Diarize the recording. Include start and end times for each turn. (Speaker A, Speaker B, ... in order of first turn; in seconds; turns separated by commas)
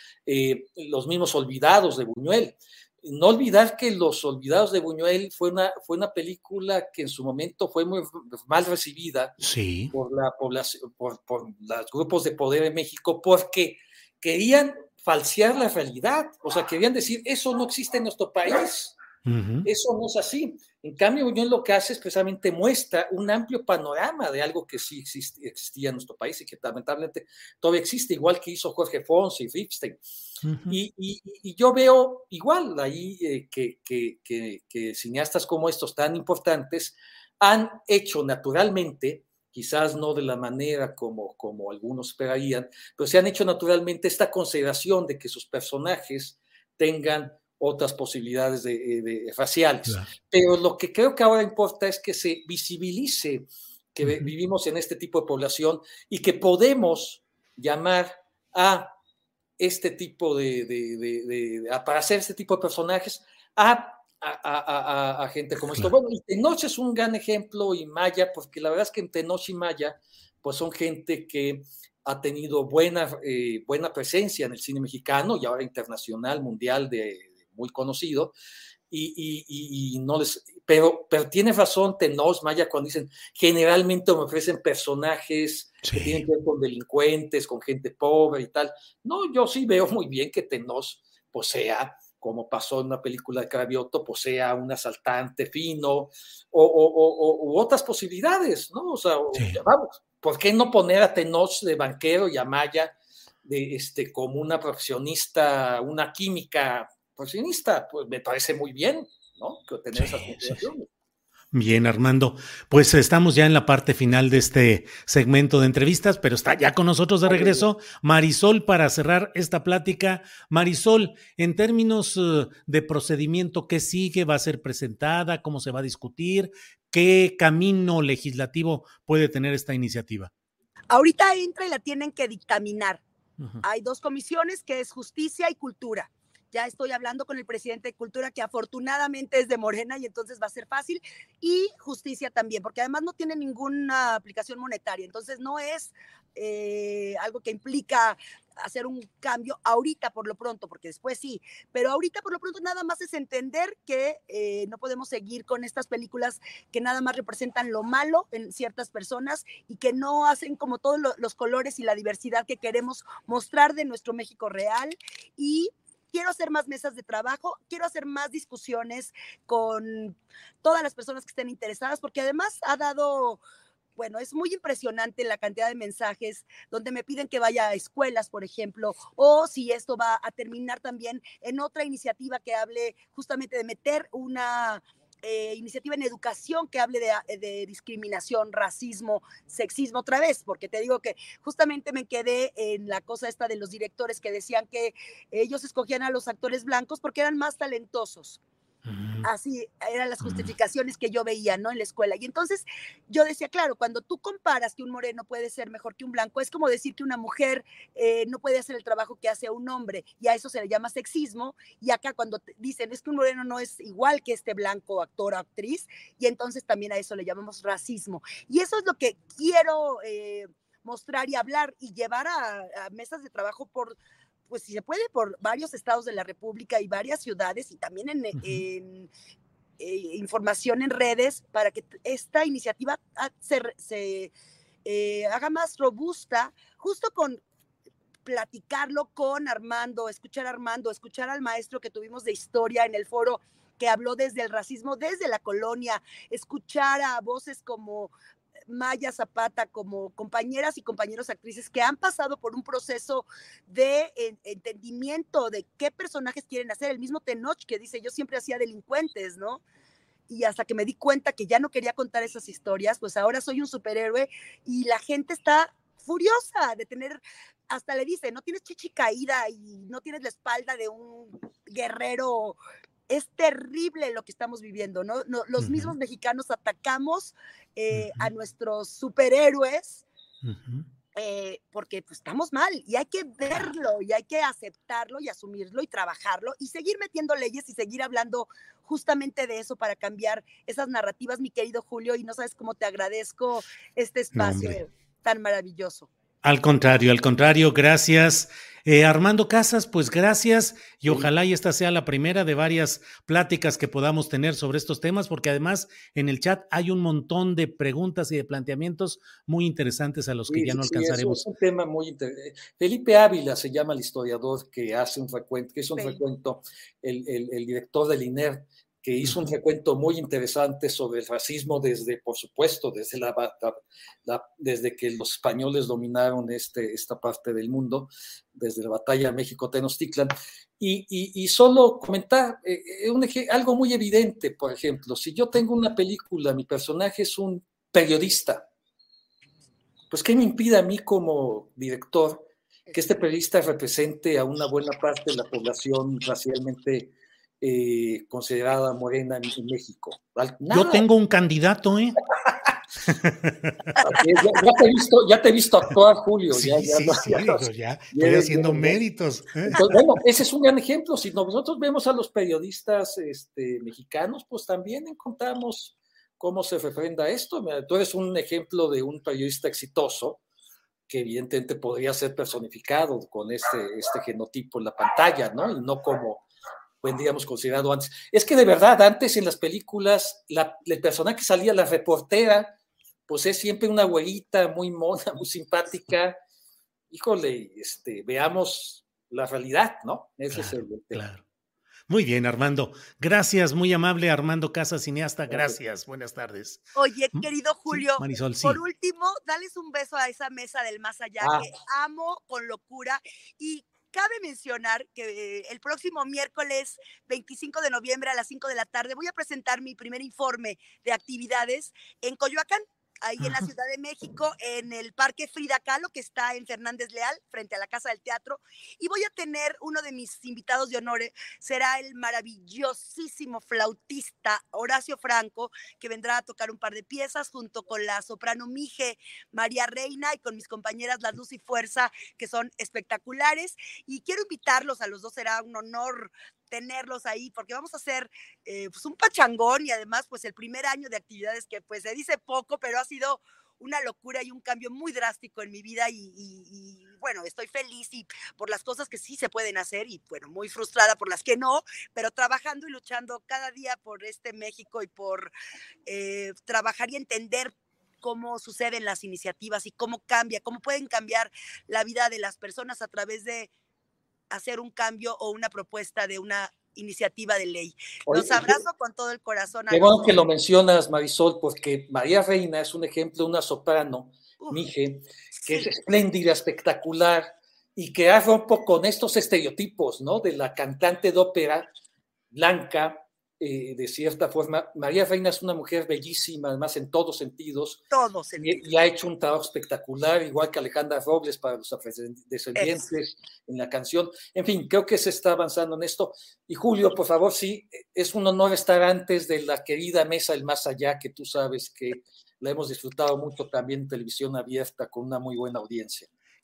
Speaker A: 0.2-9.3, Speaker B: 9.4-9.9, Speaker A: 9.9-18.9, Speaker B: 19.2-19.7, Speaker A: 19.6-30.0, Speaker B: 30.4-30.8, Speaker A: 30.7-59.0, Speaker B: 54.0-54.3, Speaker A: 59.6-78.3, Speaker A: 78.9-102.9, Speaker B: 85.9-86.2, Speaker B: 99.3-99.6, Speaker A: 103.4-110.9, Speaker B: 110.0-110.6, Speaker B: 111.5-130.3, Speaker A: 117.3-117.6, Speaker C: 130.9-133.0, Speaker C: 133.6-173.4, Speaker C: 174.0-198.4, Speaker B: 198.8-199.3, Speaker C: 199.2-224.0, Speaker B: 200.2-200.5, Speaker C: 224.5-229.1, Speaker B: 228.3-228.6, Speaker C: 229.8-234.3, Speaker C: 234.8-237.4, Speaker C: 238.2-248.1, Speaker C: 248.7-259.6, Speaker C: 260.3-272.6, Speaker C: 273.1-280.0, Speaker B: 275.6-275.9, Speaker B: 277.9-278.3, Speaker B: 280.4-280.9, Speaker C: 281.1-296.1, Speaker B: 294.3-294.8, Speaker B: 296.4-311.4, Speaker A: 310.5-338.7, Speaker A: 340.1-351.0, Speaker B: 350.7-352.2, Speaker B: 353.1-354.0, Speaker A: 354.0-359.0, Speaker B: 356.5-360.0, Speaker A: 359.7-370.4, Speaker A: 371.1-376.4, Speaker A: 377.0-382.7, Speaker A: 383.3-386.4, Speaker A: 387.1-391.2, Speaker B: 390.5-391.4, Speaker B: 392.1-396.8, Speaker A: 395.5-395.8, Speaker C: 396.9-455.5, Speaker B: 397.4-398.8, Speaker A: 401.4-401.7, Speaker C: 456.1-463.7, Speaker C: 464.5-470.4, Speaker A: 468.3-468.8, Speaker A: 469.9-481.9, Speaker C: 475.6-475.9, Speaker A: 482.5-488.1, Speaker C: 488.1-488.9, Speaker A: 488.6-506.3